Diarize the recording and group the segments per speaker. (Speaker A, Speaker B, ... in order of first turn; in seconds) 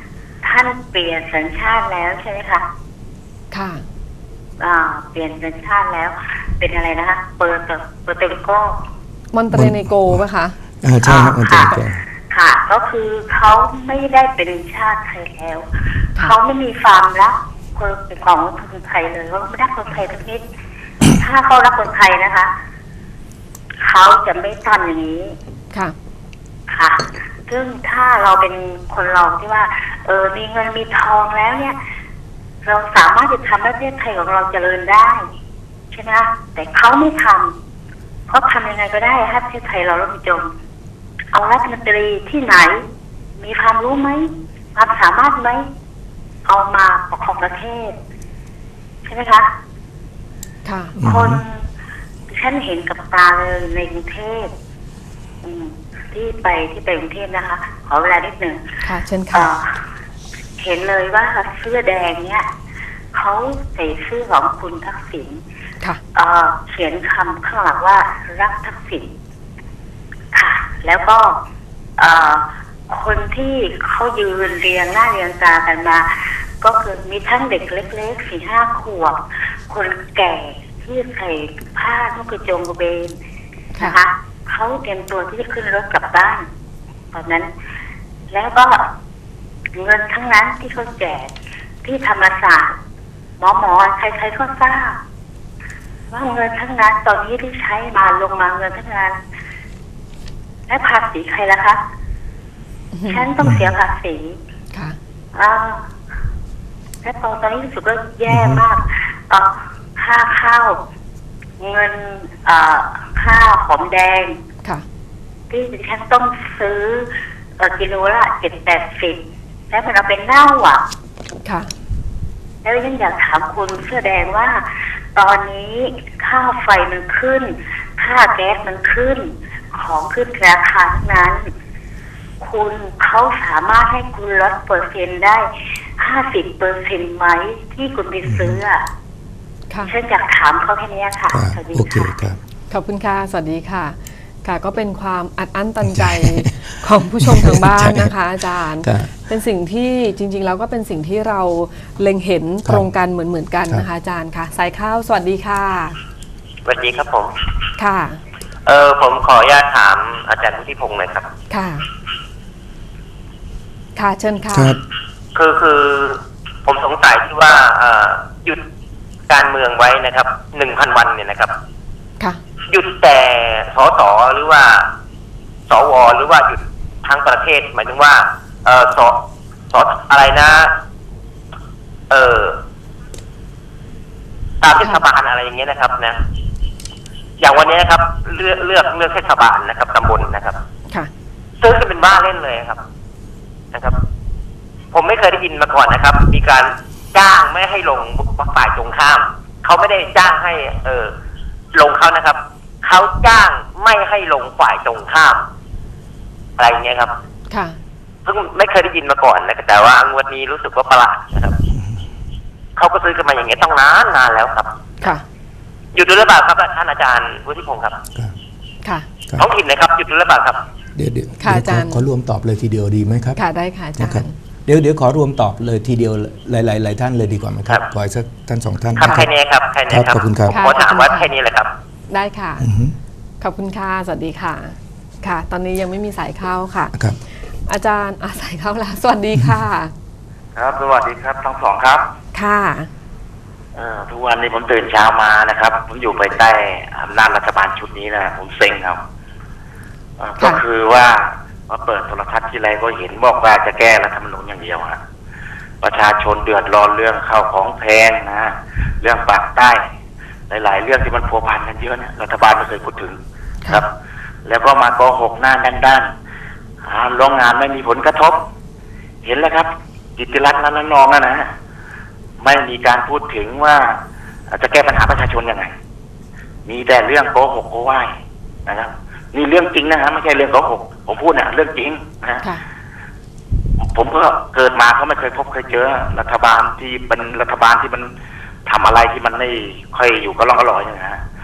Speaker A: 0.4-2.6, 4.6-8.8, 11.0-11.8, 12.3-20.4, 21.1-22.5, 23.8-25.4, 26.7-31.8, 32.6-35.2, 35.9-37.5, 38.3-40.5, 41.3-42.8, 43.4-45.7, 46.5-48.0, 49.1-49.5, 51.0-51.6, 52.3-54.5, 55.4-59.8, 60.6-62.5, 63.1-65.4, 66.1-69.1, 70.3-71.4, 72.0-83.2, 83.8-86.5, 87.1-87.5, 88.3-88.9, 89.8-91.3, 91.8-92.8, 93.4-95.0, 96.1-99.2, 100.7-101.8, 103.1-104.4, 105.3-105.8, 107.0-110.8, 111.6-114.4, 115.5-120.8, 122.6-131.5, 132.4-135.5, 136.0-138.8, 139.8-142.1
Speaker B: 3.5-3.9, 9.3-10.6, 50.6-51.0, 58.8-59.5, 102.9-103.3, 104.7-105.0, 121.4-121.7, 142.7-156.0, 157.8-158.2, 161.5-161.9, 164.0-164.8, 207.5-207.8, 218.8-219.1, 221.4-222.1, 223.3-224.3, 230.5-231.3, 232.1-232.7, 233.4-236.9, 237.5-239.9, 242.3-242.9
Speaker C: 9.5-10.2, 10.8-12.0, 51.0-51.4, 108.3-108.6, 138.3-138.6, 141.3-142.4, 145.8-148.1, 148.7-149.2, 164.5-164.8, 221.0-223.4, 224.0-229.3, 229.9-230.6, 232.6-232.9
Speaker D: 156.7-157.3, 158.7-161.3, 165.3-168.6, 169.3-171.5, 172.7-174.9, 175.7-180.7, 182.1-182.6, 184.6-186.2, 187.4-190.6, 191.6-192.8, 194.9-201.1, 201.7-205.5, 206.6-207.2, 208.3-211.6, 212.8-214.7, 215.9-218.0, 219.4-220.6, 229.0-231.7
Speaker E: 240.6-242.1, 243.8-249.0, 250.2-255.0, 255.8-259.9, 260.5-263.9, 264.4-266.1, 266.9-268.4, 269.2-271.5, 272.4-274.0, 274.5-275.7, 276.7-278.1, 278.7-282.5, 283.8-288.1, 288.7-291.2